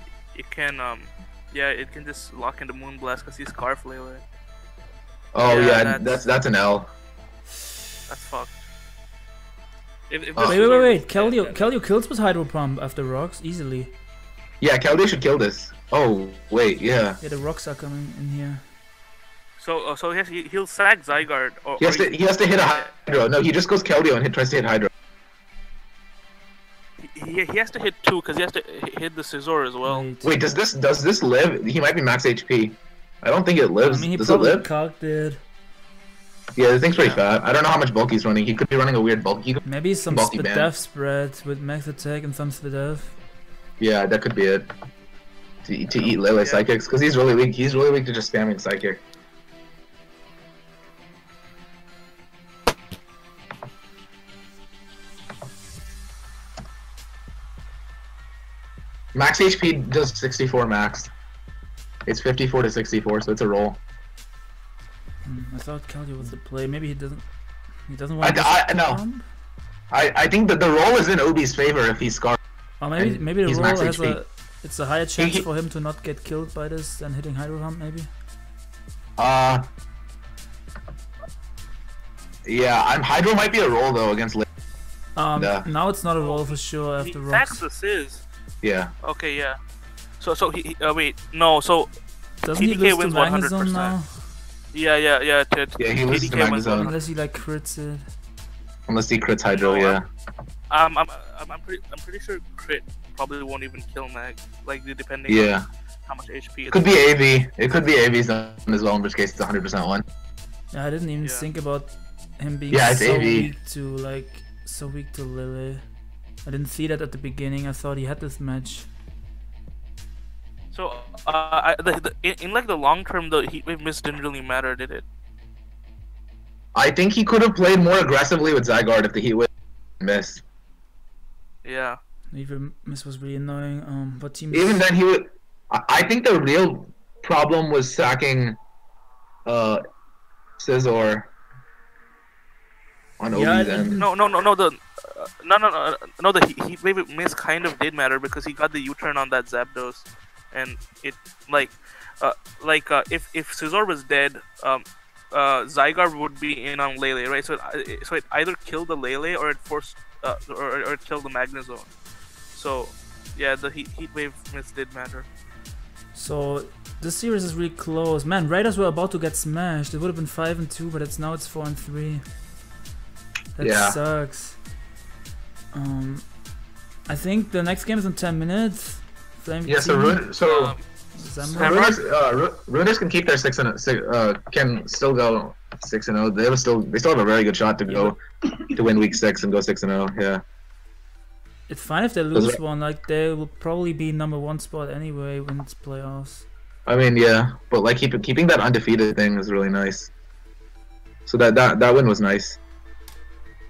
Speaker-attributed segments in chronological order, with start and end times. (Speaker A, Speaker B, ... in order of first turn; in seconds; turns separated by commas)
Speaker A: 0.3-4.2, Speaker B: 5.3-6.9, Speaker A: 5.5-6.3, Speaker A: 8.1-8.6, Speaker A: 10.1-11.8, Speaker B: 10.3-10.6, Speaker C: 10.4-13.9, Speaker B: 14.6-17.2, Speaker C: 17.2-18.6, Speaker A: 19.6-22.9, Speaker B: 21.8-24.9, Speaker A: 27.0-30.1, Speaker C: 29.8-30.3, Speaker B: 30.2-34.7, Speaker C: 33.9-35.4, Speaker B: 36.6-40.7, Speaker A: 36.9-37.2, Speaker C: 39.6-43.2, Speaker B: 43.8-44.7, Speaker B: 45.6-49.0, Speaker A: 46.0-46.7, Speaker B: 59.1-61.1, Speaker B: 62.1-63.8, Speaker C: 65.2-69.3, Speaker B: 68.2-69.1, Speaker B: 69.9-72.4, Speaker C: 72.8-78.1, Speaker B: 73.0-74.2, Speaker B: 75.2-75.5, Speaker B: 79.2-79.7, Speaker B: 82.5-84.5, Speaker C: 85.2-87.6, Speaker B: 85.4-85.7, Speaker A: 86.2-88.3, Speaker B: 88.6-88.9, Speaker A: 89.0-89.6, Speaker A: 90.2-91.9, Speaker C: 92.4-94.3, Speaker A: 92.5-94.0, Speaker A: 94.7-97.0, Speaker B: 95.8-96.9, Speaker C: 96.8-98.1, Speaker B: 98.9-100.1, Speaker A: 99.5-100.0, Speaker A: 100.7-105.6, Speaker B: 105.3-105.7, Speaker A: 106.1-107.2, Speaker B: 106.7-110.0, Speaker C: 110.7-118.9, Speaker A: 111.2-111.5, Speaker B: 112.7-113.5, Speaker A: 120.7-125.0, Speaker B: 126.8-129.5, Speaker B: 130.0-130.4, Speaker A: 131.6-132.0, Speaker C: 132.3-134.9, Speaker B: 134.5-138.6, Speaker B: 139.5-139.8, Speaker B: 140.6-141.3, Speaker B: 143.2-144.0, Speaker C: 143.3-144.1, Speaker A: 144.0-161.9, Speaker A: 162.5-165.3, Speaker C: 166.1-172.2, Speaker C: 173.6-174.6, Speaker B: 173.6-174.0, Speaker C: 175.7-176.4, Speaker C: 177.1-180.3, Speaker B: 179.7-180.8, Speaker A: 180.4-182.1, Speaker C: 181.1-181.8, Speaker B: 181.5-188.2, Speaker C: 187.9-188.2, Speaker B: 188.7-190.4, Speaker C: 191.7-196.5, Speaker B: 192.3-192.6, Speaker B: 196.9-200.1, Speaker B: 201.3-202.6